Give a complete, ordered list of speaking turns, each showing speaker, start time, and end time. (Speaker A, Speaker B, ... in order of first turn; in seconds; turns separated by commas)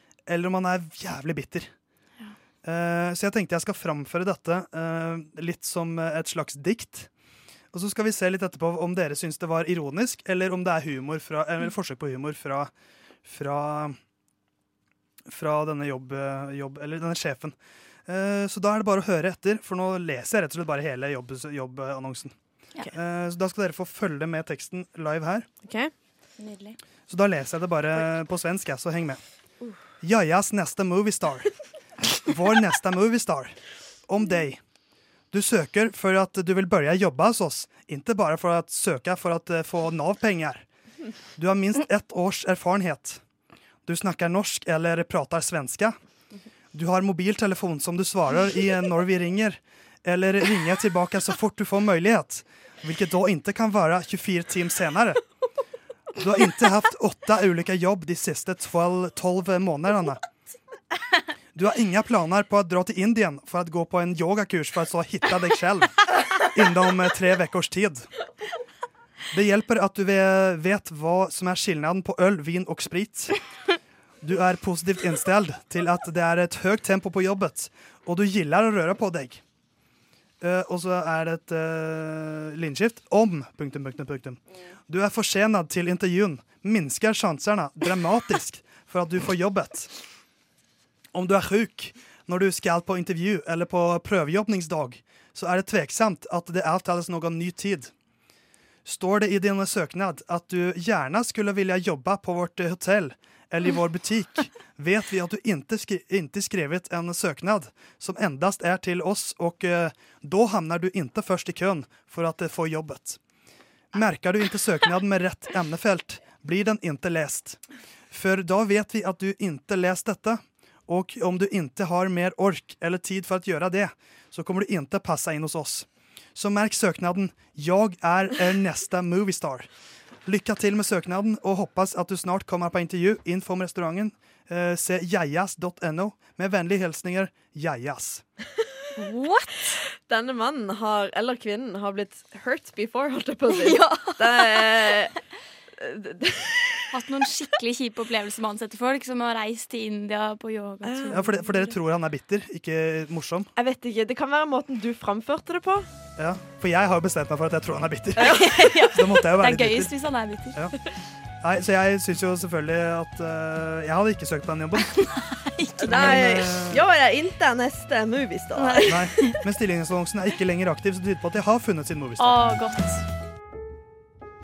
Speaker A: 0.3-1.7, Speaker A: 2.6-7.1, Speaker A: 7.7-12.7, Speaker A: 13.2-14.0, Speaker A: 15.3-17.6, Speaker A: 18.1-22.4, Speaker A: 22.9-25.5, Speaker B: 25.6-25.9, Speaker C: 26.4-26.8, Speaker A: 27.1-29.2, Speaker A: 30.0-31.5, Speaker A: 32.2-33.5, Speaker A: 34.1-34.6, Speaker A: 35.3-40.6, Speaker A: 41.4-43.2, Speaker A: 43.9-46.0, Speaker A: 46.7-55.2, Speaker A: 56.2-60.2, Speaker A: 61.5-66.0, Speaker A: 66.5-68.1, Speaker A: 69.3-73.4, Speaker A: 74.2-79.4, Speaker A: 80.4-89.9, Speaker A: 91.1-97.9, Speaker A: 98.8-113.2, Speaker A: 113.9-117.6, Speaker A: 118.1-129.7, Speaker A: 130.2-138.2, Speaker C: 139.0-139.8, Speaker B: 139.9-145.1, Speaker C: 143.5-144.6, Speaker B: 145.8-146.8, Speaker C: 146.9-151.7, Speaker B: 150.8-151.3, Speaker A: 151.1-153.5, Speaker B: 153.6-155.9, Speaker A: 156.2-159.9, Speaker B: 158.2-158.8, Speaker C: 158.3-160.7, Speaker A: 161.4-164.9, Speaker C: 165.0-166.4, Speaker B: 165.8-169.0, Speaker A: 165.9-166.8, Speaker C: 168.6-169.3, Speaker A: 168.9-172.4, Speaker C: 172.2-173.0